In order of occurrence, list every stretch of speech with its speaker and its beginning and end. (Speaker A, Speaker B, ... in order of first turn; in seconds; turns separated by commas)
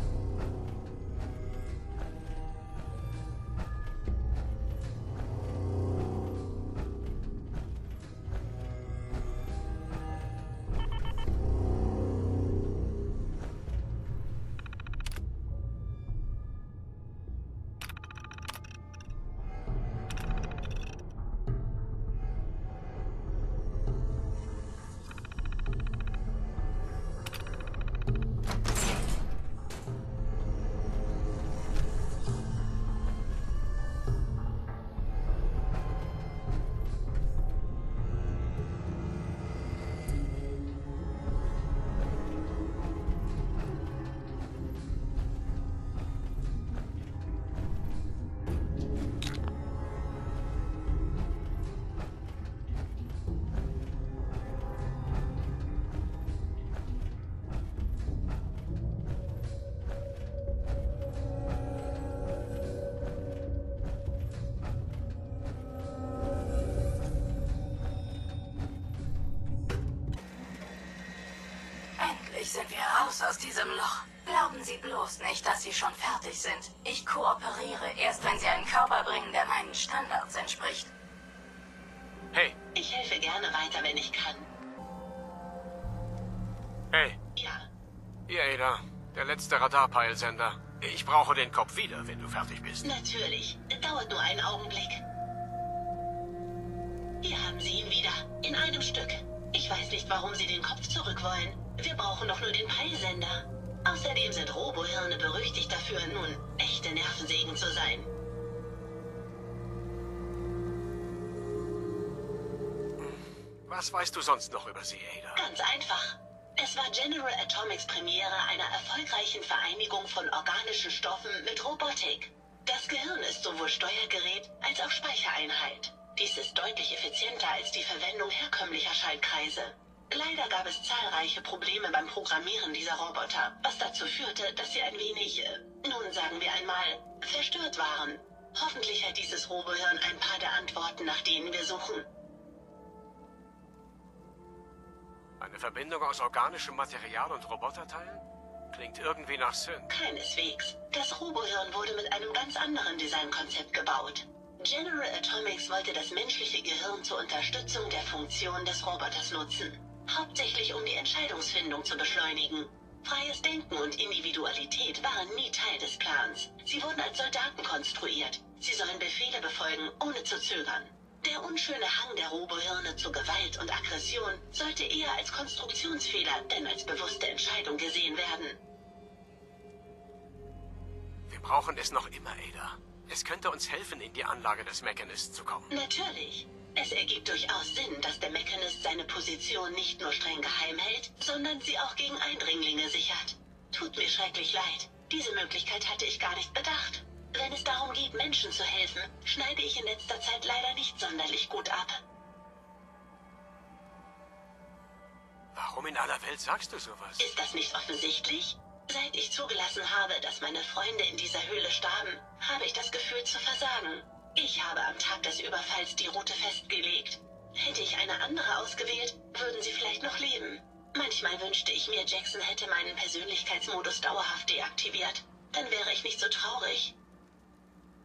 Speaker A: 72.0-80.9, Speaker B: 82.7-84.5, Speaker C: 86.9-87.2, Speaker B: 87.3-87.7, Speaker C: 88.3-92.9, Speaker B: 92.8-95.0, Speaker B: 97.2-108.1, Speaker C: 113.0-115.4, Speaker B: 115.3-142.1, Speaker C: 145.4-149.9, Speaker B: 149.9-178.6, Speaker C: 181.3-185.7, Speaker B: 185.7-202.0, Speaker C: 205.5-207.2, Speaker B: 207.2-226.9